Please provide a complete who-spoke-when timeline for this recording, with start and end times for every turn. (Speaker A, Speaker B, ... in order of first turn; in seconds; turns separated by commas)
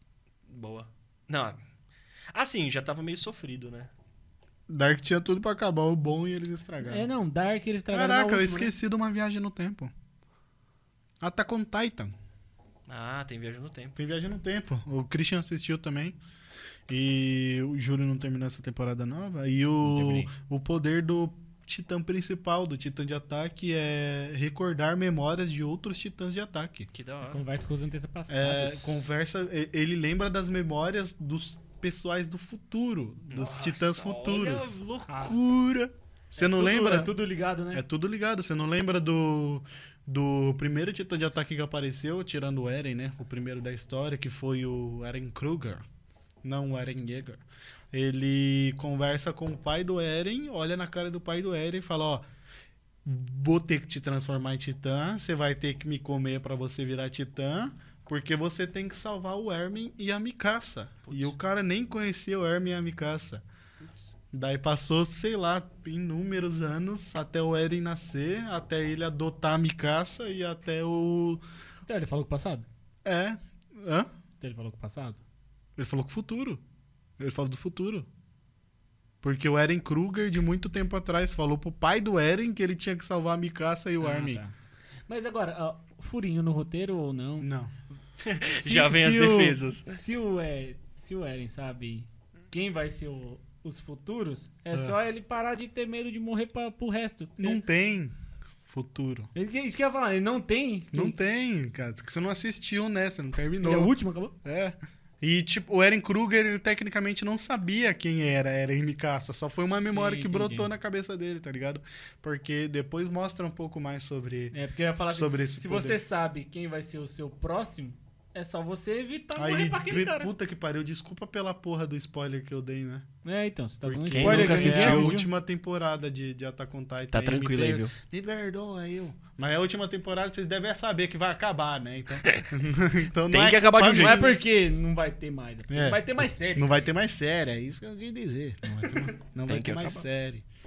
Speaker A: 0.5-1.6, Speaker A: 2.3-3.9, Speaker B: 4.7-7.1, Speaker C: 6.8-8.7, Speaker B: 7.9-9.9, Speaker B: 11.2-12.1, Speaker A: 12.9-13.9, Speaker B: 13.9-16.2, Speaker B: 16.9-26.9, Speaker C: 19.8-20.3, Speaker A: 26.9-27.4, Speaker C: 27.2-29.0, Speaker B: 28.3-34.8, Speaker A: 33.3-35.5, Speaker C: 35.1-35.4, Speaker B: 35.4-37.2, Speaker C: 36.4-37.8, Speaker B: 37.7-45.8, Speaker B: 46.4-52.2, Speaker B: 53.0-63.4, Speaker B: 64.3-71.4, Speaker C: 71.9-72.7, Speaker B: 73.0-74.1, Speaker C: 74.4-75.2, Speaker B: 75.8-76.6, Speaker B: 77.2-78.1, Speaker B: 79.2-84.4, Speaker C: 84.0-84.5, Speaker C: 85.1-87.5, Speaker B: 87.4-87.7, Speaker A: 88.2-89.9, Speaker C: 88.5-97.6, Speaker B: 97.4-99.3, Speaker C: 99.3-101.2, Speaker B: 100.9-114.5, Speaker C: 103.6-104.3, Speaker C: 109.9-110.7, Speaker C: 114.5-120.1, Speaker B: 115.1-116.0, Speaker B: 119.3-123.0, Speaker A: 119.6-120.3, Speaker C: 123.2-125.3, Speaker B: 123.8-134.4, Speaker A: 124.1-125.2, Speaker A: 127.1-127.9, Speaker A: 133.3-134.2, Speaker C: 133.8-136.9, Speaker B: 135.7-140.4, Speaker A: 139.5-140.0